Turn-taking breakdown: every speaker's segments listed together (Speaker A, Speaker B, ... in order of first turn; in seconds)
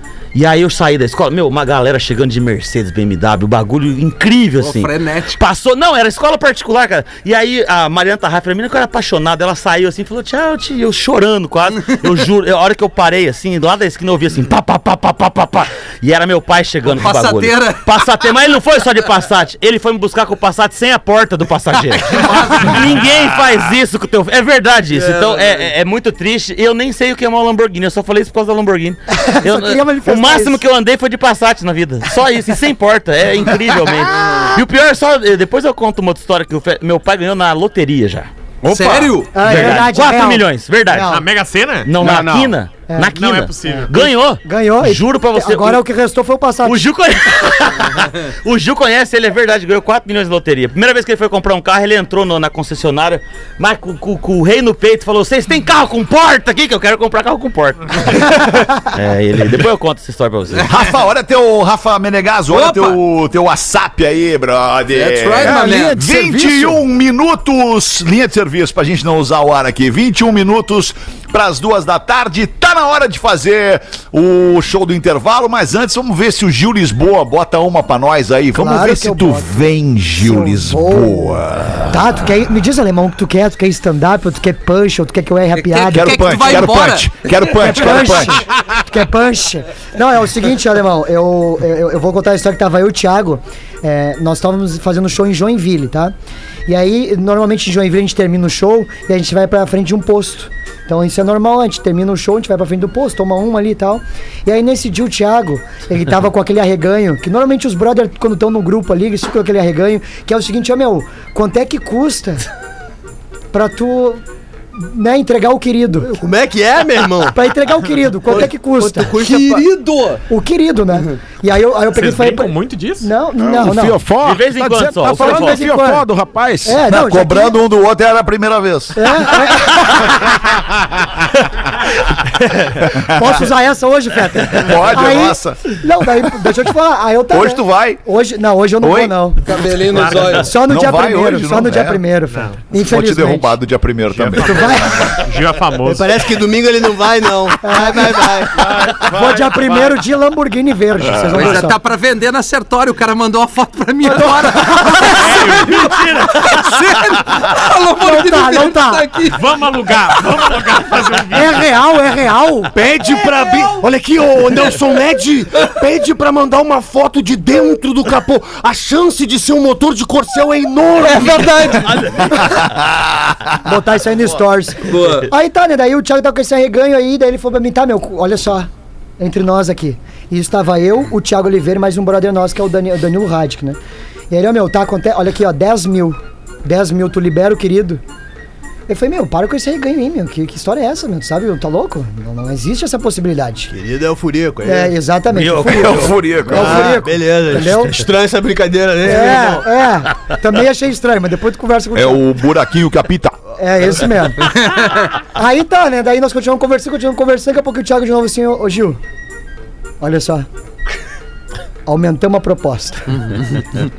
Speaker A: 0.3-38.3, 39.4-41.1, 41.8-45.8, 46.6-60.8, 124.2-125.7, 171.8-172.6, 195.3-196.2
Speaker B: 4.6-5.4, 16.9-18.0, 22.1-22.9, 24.9-25.7, 38.6-39.6, 62.5-63.0, 64.9-66.0, 85.6-87.3, 119.2-120.2, 139.4-140.5, 151.3-159.4, 171.1-172.2, 174.9-175.3, 204.7-205.0
Speaker C: 29.1-30.6, 39.3-41.2, 42.9-46.9, 78.5-86.7, 87.5-96.1, 96.7-112.5, 113.5-114.2, 114.8-116.1, 117.3-119.1, 120.3-124.1, 125.1-126.1, 126.6-127.6, 129.0-130.5, 132.9-139.4, 140.3-143.6, 144.4-145.2, 147.6-148.4, 149.1-151.8, 154.1-155.5, 158.0-159.1, 161.3-162.7, 173.6-183.8, 184.3-188.0, 188.9-193.7, 194.6-198.1, 199.0-202.2, 203.6-204.7, 205.3-209.0, 210.0-210.5, 211.9-213.4
Speaker D: 38.7-39.2, 42.0-42.5, 65.4-66.8, 123.4-126.8
Speaker E: 41.1-41.9, 43.1-44.0, 121.9-123.1, 139.9-140.5, 142.3-142.6, 144.1-146.2, 155.2-156.6, 159.3-161.7
Speaker F: 60.7-82.2, 85.7-88.4, 126.9-129.6, 133.0-133.4, 134.5-135.8, 137.3-138.0, 138.8-139.2, 140.7-142.0, 142.7-145.1, 151.0-151.6, 172.6-173.3, 195.7-196.9, 201.9-203.4
Speaker G: 116.1-117.4, 118.3-119.7, 145.8-149.0, 193.7-194.9, 196.5-199.7
Speaker H: 162.7-171.9